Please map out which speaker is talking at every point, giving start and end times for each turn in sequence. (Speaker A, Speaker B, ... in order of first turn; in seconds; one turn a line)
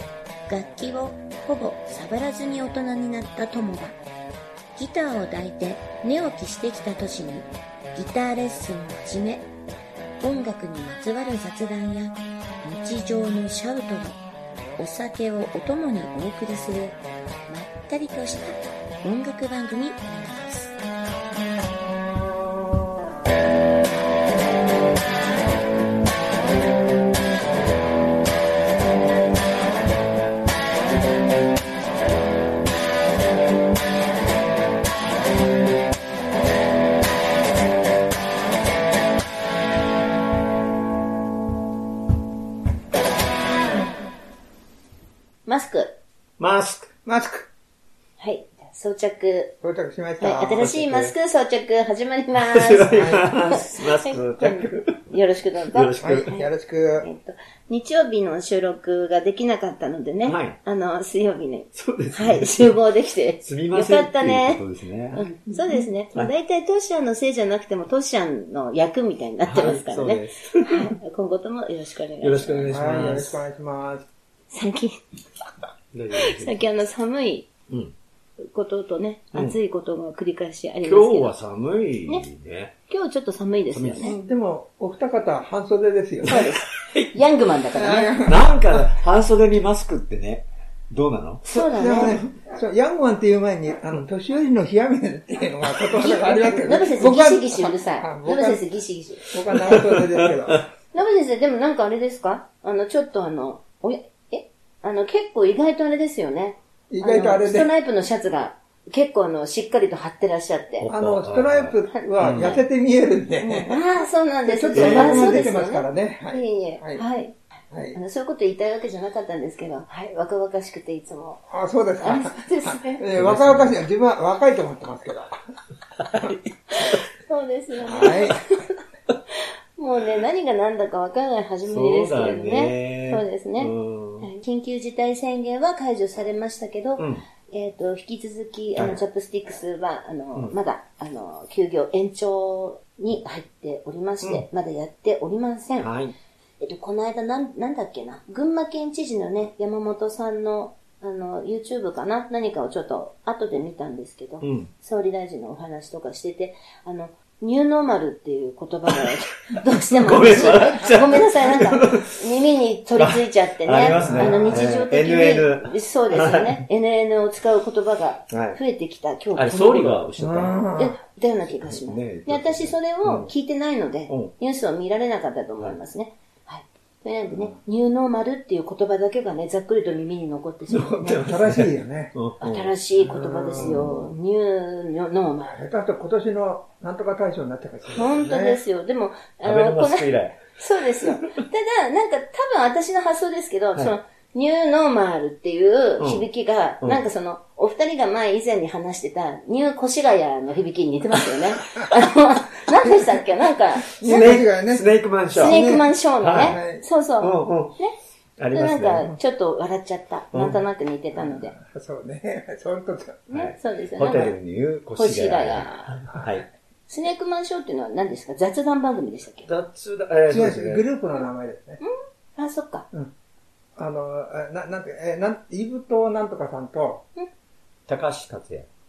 Speaker A: 0.5-4.0
Speaker A: 4.8-9.5
Speaker A: 10.2-14.2
Speaker A: 14.8-20.8
Speaker A: 45.5-46.0
Speaker B: 46.4-46.9
Speaker C: 47.0-47.5
Speaker A: 48.2-49.5
Speaker C: 49.6-50.7
Speaker A: 50.2-64.6
Speaker B: 50.6-51.1
Speaker B: 52.4-55.1
Speaker C: 52.9-53.3
Speaker B: 55.6-56.3
Speaker C: 56.0-57.1
Speaker B: 60.2-60.6
Speaker B: 61.7-62.8
Speaker B: 63.4-65.3
Speaker A: 65.2-73.4
Speaker B: 69.4-70.9
Speaker B: 72.2-73.3
Speaker C: 72.7-74.1
Speaker A: 74.5-75.0
Speaker B: 75.9-76.6
Speaker A: 76.1-77.5
Speaker B: 77.7-77.9
Speaker A: 78.4-81.3
Speaker B: 80.8-82.8
Speaker A: 82.9-84.2
Speaker B: 83.7-84.1
Speaker C: 84.0-86.5
Speaker A: 86.2-88.2
Speaker B: 86.3-87.2
Speaker C: 87.7-88.9
Speaker B: 88.2-92.1
Speaker A: 91.5-92.2
Speaker C: 91.7-98.7
Speaker A: 95.9-99.2
Speaker C: 99.2-100.7
Speaker B: 99.6-100.6
Speaker A: 100.9-110.9
Speaker C: 106.9-107.7
Speaker B: 110.8-112.6
Speaker C: 110.9-113.7
Speaker A: 112.0-112.6
Speaker A: 113.4-117.4
Speaker C: 114.5-117.0
Speaker B: 114.7-115.5
Speaker C: 117.7-118.0
Speaker A: 117.9-121.5
Speaker C: 121.5-125.4
Speaker A: 122.0-123.0
Speaker B: 123.2-123.8
Speaker B: 126.0-126.4
Speaker A: 126.7-145.9
Speaker C: 127.9-128.4
Speaker B: 131.7-134.3
Speaker B: 137.0-137.2
Speaker B: 145.8-146.2
Speaker A: 146.6-170.1
Speaker B: 154.4-154.7
Speaker B: 160.0-162.2
Speaker B: 163.0-166.7
Speaker C: 163.9-164.6
Speaker B: 168.3-168.6
Speaker B: 169.3-170.7
Speaker C: 170.2-170.9
Speaker A: 170.8-181.2
Speaker B: 171.6-173.3
Speaker B: 180.7-182.7
Speaker C: 181.2-182.1
Speaker A: 182.4-185.6
Speaker C: 183.0-184.0
Speaker B: 183.6-184.1
Speaker C: 185.5-188.6
Speaker A: 187.9-204.3
Speaker B: 189.4-190.4
Speaker B: 196.0-196.3
Speaker C: 202.9-203.2
Speaker C: 203.8-206.8
Speaker B: 204.0-205.6
Speaker A: 205.4-207.9
Speaker B: 206.2-206.6
Speaker B: 207.2-207.8
Speaker B: 208.4-209.1
Speaker A: 208.5-211.5
Speaker B: 210.3-210.6
Speaker C: 211.2-213.3
Speaker A: 213.3-214.3
Speaker B: 213.3-216.4
Speaker A: 215.0-216.0
Speaker A: 216.9-219.5
Speaker B: 219.5-220.8
Speaker C: 220.3-221.8
Speaker A: 221.8-222.9
Speaker C: 223.8-227.1
Speaker B: 227.9-228.7